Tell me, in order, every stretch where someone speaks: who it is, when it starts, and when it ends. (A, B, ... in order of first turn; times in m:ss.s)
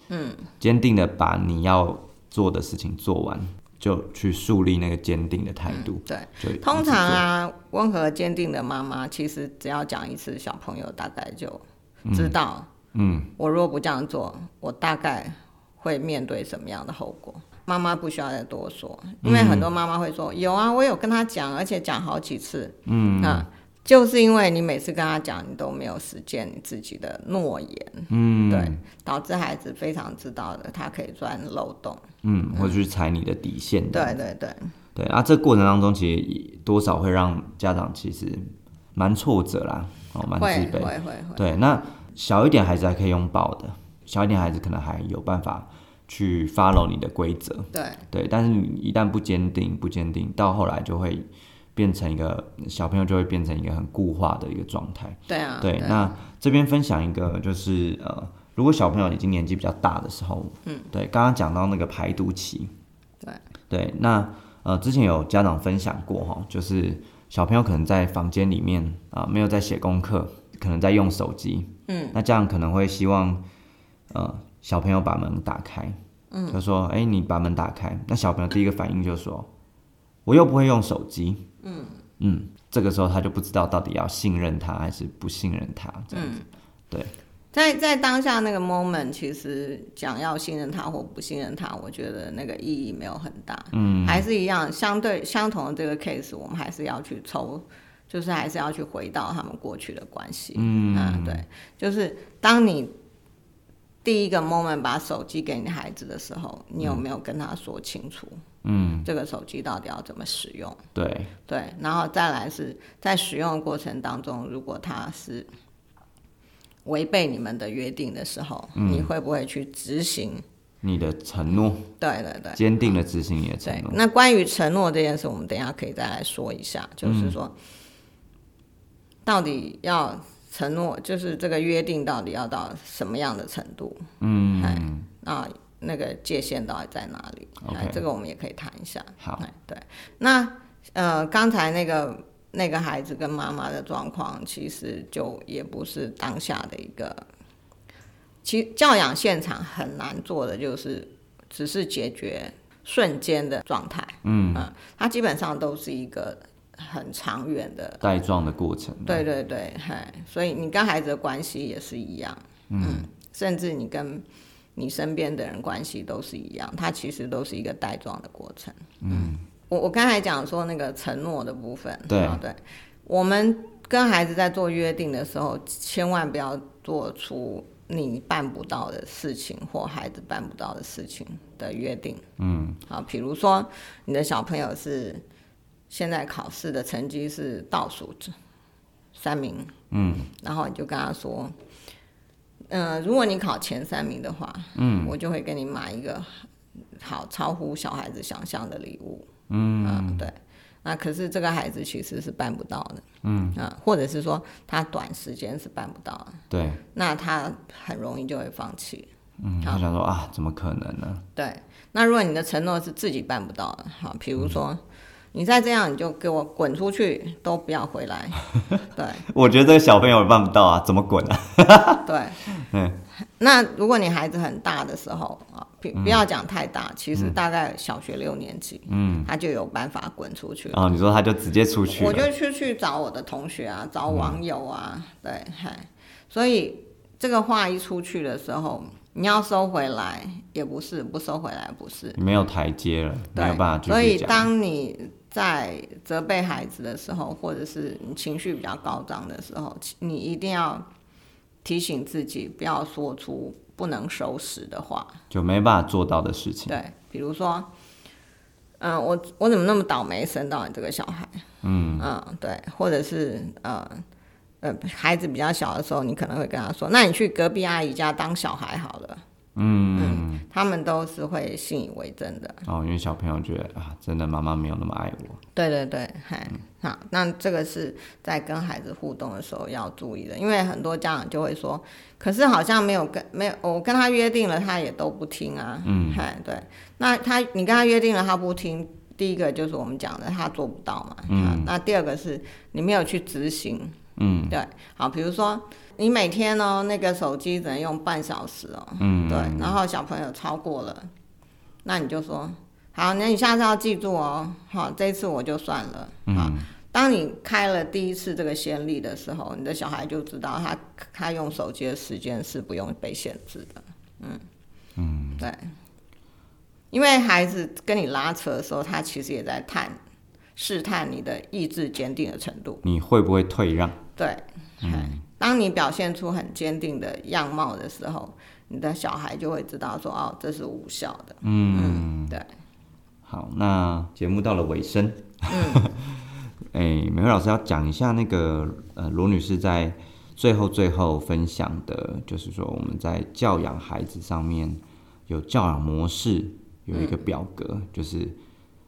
0:00.1-0:00.5 A
0:00.6-0:07.2 B
0:05.7-0:12.7 A
0:12.1-0:12.4 B
0:12.9-0:13.3 B
0:13.4-0:32.0 A
0:19.2-0:19.7 B
0:22.9-0:23.5 B
0:28.1-0:28.8 B
0:32.2-0:34.2 B
0:33.9-0:34.7 A
0:35.0-1:02.7 B
0:40.4-0:41.5 A
0:47.7-0:48.0 A
0:55.3-0:56.2 A
1:03.7-1:13.4 B
1:11.9-1:12.2 A
1:14.1-1:16.0 B
1:16.3-1:16.6 A
1:16.5-1:19.5 B
1:20.2-1:21.5 B
1:21.6-1:22.0 A
1:22.2-1:26.3 B
1:26.1-1:26.4 A
1:27.5-1:42.9 A
1:33.7-1:34.3 B
1:40.6-1:41.4 B
1:44.0-1:48.4 A
1:48.6-1:49.1 B
1:49.0-1:50.8 A
1:51.0-1:51.3 B
1:51.5-1:55.5 A
1:56.8-2:00.4 A
1:58.8-1:59.1 B
2:00.8-2:01.9 B
2:02.0-2:02.6 A
2:02.6-2:04.0 B
2:03.6-2:07.5 A
2:07.0-2:07.4 B
2:09.2-2:14.1 A
2:14.2-2:15.1 B
2:14.6-2:27.2 A
2:17.6-2:18.0 B
2:28.4-2:38.0 A
2:34.2-2:34.7 B
2:38.0-2:39.2 B
2:39.1-2:44.2 A
2:42.7-2:43.1 B
2:44.8-3:02.2 A
2:49.0-2:49.4 B
2:52.1-2:52.4 B
3:02.4-3:02.8 B
3:02.9-3:05.2 A
3:05.9-3:08.4 A
3:09.1-3:09.7 A
3:09.9-3:10.3 B
3:10.4-3:11.5 A
3:12.7-3:16.3 A
3:14.8-3:15.1 B
3:17.0-3:19.3 A
3:19.5-3:20.2 B
3:19.8-3:23.0 A
3:23.2-3:23.6 B
3:23.6-3:26.4 A
3:26.5-3:26.8 B
3:26.9-3:29.1 A
3:29.4-3:31.2 B
3:31.4-3:34.8 A
3:35.3-3:39.2 A
3:39.3-3:43.0 B
3:42.0-3:42.4 A
3:43.4-3:50.8 A
3:46.0-3:46.2 B
3:48.9-3:49.3 B
3:50.7-3:52.3 B
3:51.9-4:02.2 A
3:54.1-3:54.4 B
4:02.2-4:04.5 B
4:03.4-4:10.8 A
4:11.6-4:15.2 A
4:15.3-4:16.8 B
4:16.7-4:17.7 A
4:18.8-4:21.4 A
4:21.6-4:22.1 B
4:22.0-4:24.0 A
4:24.6-4:29.2 A
4:29.6-4:30.4 B
4:30.0-4:32.6 A
4:32.7-4:35.4 B
4:35.6-4:54.0 A
4:45.8-4:46.2 B
4:51.3-4:51.7 B
4:54.2-4:54.6 B
4:54.5-5:01.1 A
4:59.0-4:59.8 B
5:01.8-5:14.4 A
5:06.3-5:06.7 B
5:15.0-5:15.5 B
5:15.4-5:15.7 A
5:16.9-5:20.0 A
5:20.6-5:22.8 A
5:22.8-5:24.0 B
5:24.2-5:32.5 A
5:24.8-5:25.2 B
5:31.4-5:32.4 B
5:33.3-5:48.4 B
5:35.5-5:35.9 A
5:46.9-5:47.2 A